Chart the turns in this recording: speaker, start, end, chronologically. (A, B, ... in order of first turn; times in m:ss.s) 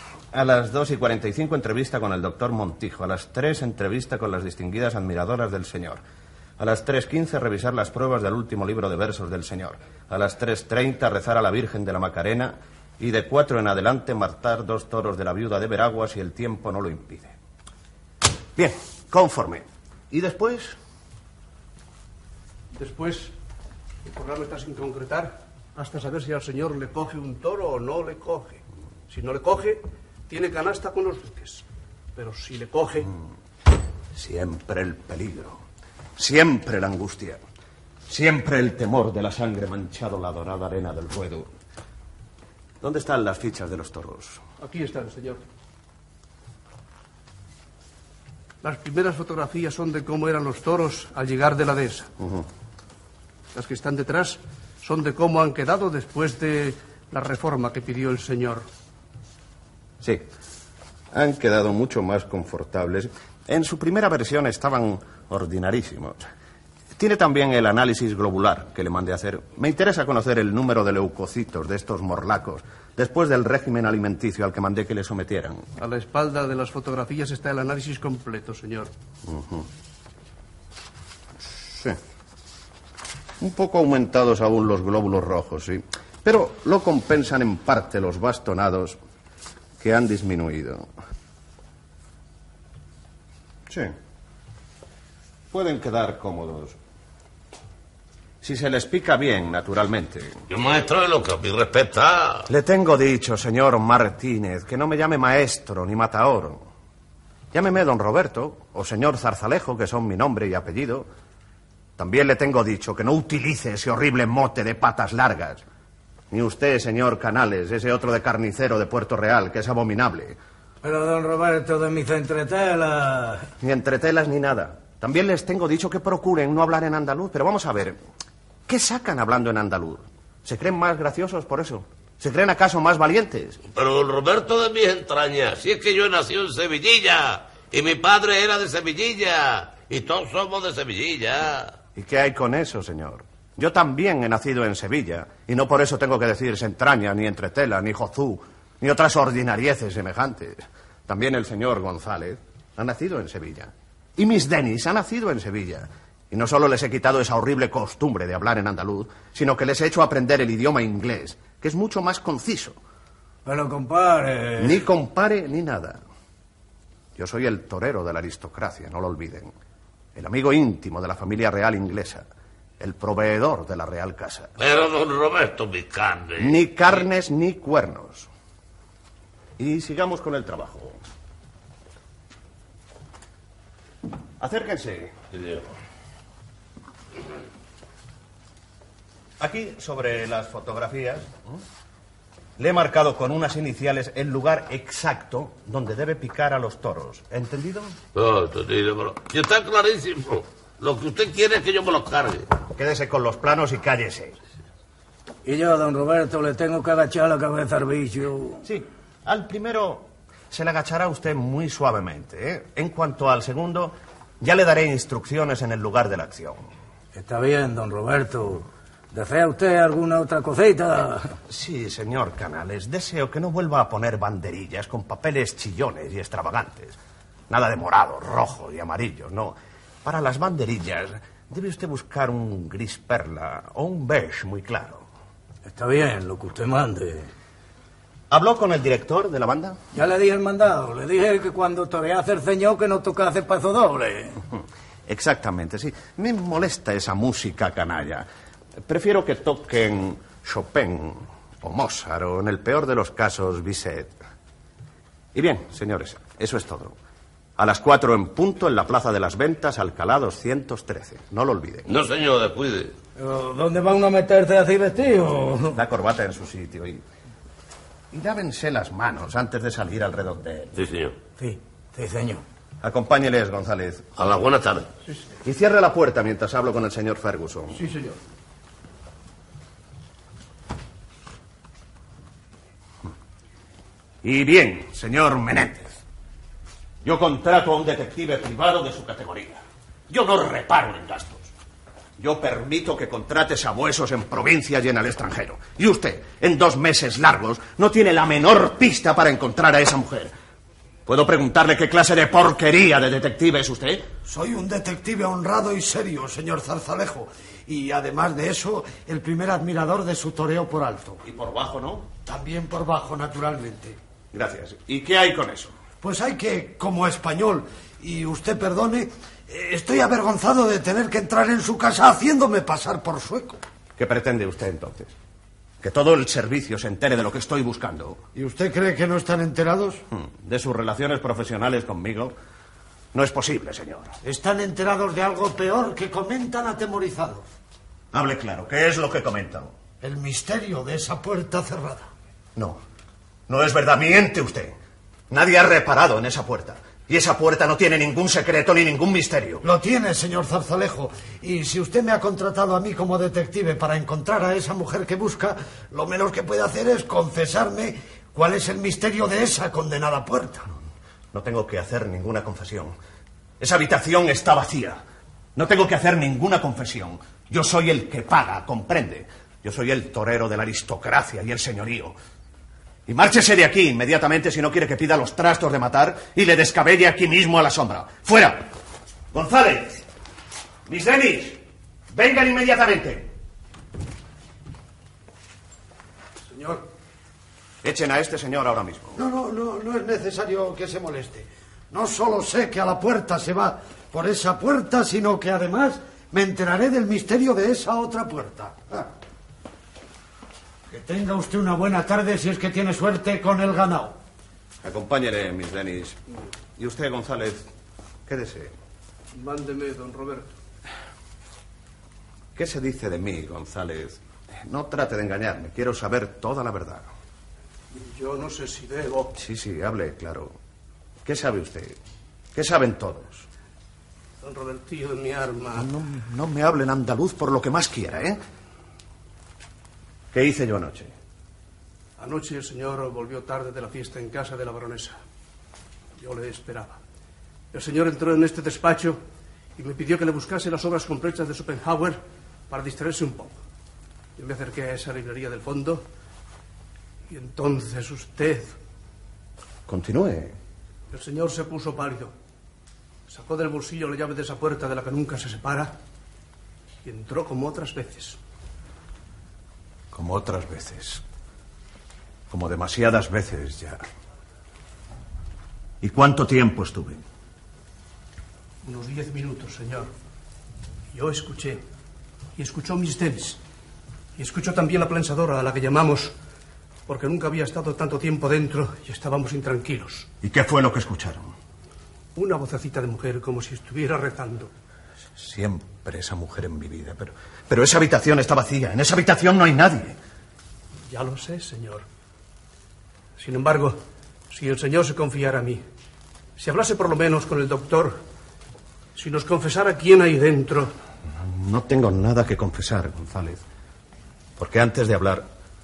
0:00.3-0:06.0 A
0:06.6-0:17.3 A
0:18.6-0:20.7 A
0:22.7-0:23.3 B
0:24.0-0:33.1 B
0:34.1-0:35.6 A
0:36.2-0:37.4 A
0:38.1-0:41.5 A
0:42.8-0:44.4 A
0:44.6-0:45.4 B
0:48.6-0:52.1 B
0:52.2-0:52.5 A
0:53.5-0:58.7 B
1:01.1-1:06.2 A
1:07.0-1:15.6 A
1:15.8-1:18.9 B
1:19.3-1:19.7 A
1:21.5-1:22.0 A
1:23.4-1:29.0 A
1:29.8-1:30.9 A
1:33.7-1:33.9 A
1:35.5-1:36.8 A
1:38.4-1:40.4 A
1:40.5-1:42.5 C
1:42.5-1:46.6 A
1:47.5-1:51.1 A
1:52.0-1:55.6 A
1:56.3-2:00.4 A
2:00.8-2:03.5 D
2:03.6-2:08.0 A
2:08.7-2:13.6 A
2:13.7-2:21.8 C
2:22.0-2:42.8 A
2:43.4-2:44.8 D
2:44.6-2:46.0 A
2:47.2-2:49.5 A
2:50.2-2:52.2 A
2:52.8-2:54.5 A
2:54.6-2:56.6 C
2:56.4-2:58.3 A
2:59.6-3:01.0 A
3:04.4-3:05.1 A
3:05.3-3:05.6 C
3:09.4-3:11.4 A
3:12.6-3:18.0 A
3:18.2-3:22.5 C
3:22.7-3:24.4 A
3:25.4-3:28.6 D
3:28.6-3:36.7 A
3:37.1-3:41.4 D
3:41.5-3:47.0 A
3:47.5-3:55.1 A
3:55.7-3:57.3 D
3:58.3-3:59.8 A
3:59.9-4:04.4 D
4:05.1-4:08.3 A
4:08.9-4:14.1 A
4:15.3-4:17.0 A
4:17.6-4:21.9 A
4:21.9-4:23.0 C
4:23.2-4:25.8 D
4:25.8-4:27.0 A
4:28.1-4:30.7 A
4:30.8-4:31.2 C
4:31.4-4:32.4 D
4:32.8-4:34.1 A
4:34.2-4:34.9 C
4:35.4-4:37.8 A
4:37.7-4:38.2 B
4:44.2-4:45.9 A
4:47.0-4:51.5 A
4:52.2-5:00.3 A
5:01.1-5:04.1 A
5:04.3-5:11.2 E
5:11.2-5:12.1 A
5:12.2-5:14.0 E
5:14.3-5:15.8 A
5:16.0-5:23.6 E
5:24.0-5:25.1 A
5:25.8-5:28.2 A
5:28.4-5:30.0 E
5:30.1-5:32.4 A
5:33.1-5:34.2 A
5:34.2-5:37.5 E
5:38.1-5:39.7 A
5:40.0-5:42.1 E
5:43.5-5:44.8 A
5:45.3-5:49.6 A
5:49.6-6:00.7 E
6:01.3-6:02.9 A
6:03.6-6:05.0 A
6:05.6-6:12.2 A
6:13.1-6:18.7 A
6:19.3-6:20.0 A
6:20.9-6:21.6 A
6:22.1-6:23.3 A
6:26.5-6:26.8 B
6:27.8-6:29.2 A
6:29.2-6:39.1 E
6:40.9-6:44.2 E
6:44.8-6:46.2 A
6:46.8-6:47.6 A
6:48.3-6:48.7 A
6:49.3-6:50.6 B
6:52.6-6:57.1 A
6:57.9-6:59.3 B
6:59.4-7:00.5 A
7:01.2-7:02.0 A
7:02.6-7:03.5 A
7:04.4-7:05.9 B
7:05.8-7:08.4 A
7:10.3-7:11.1 A
7:12.2-7:15.2 B
7:16.2-7:17.0 B
7:17.7-7:19.2 B
7:19.8-7:23.6 B
7:24.4-7:26.0 B
7:27.3-7:28.8 B
7:29.9-7:30.6 A
7:31.1-7:32.3 B
7:33.3-7:36.0 B
7:37.0-7:38.4 B
7:40.1-7:41.2 A
7:42.5-7:44.0 A
7:46.0-7:47.2 A
7:48.8-7:50.1 B
7:51.1-7:51.8 B
7:52.6-7:53.6 B
7:54.4-7:56.3 B
7:57.1-8:00.3 B
8:00.4-8:01.5 A
8:02.4-8:04.7 B
8:05.4-8:10.2 A
8:11.1-8:12.1 B
8:13.4-8:15.8 B
8:16.6-8:18.2 B
8:19.2-8:20.9 B
8:21.4-8:23.6 A
8:24.6-8:25.5 A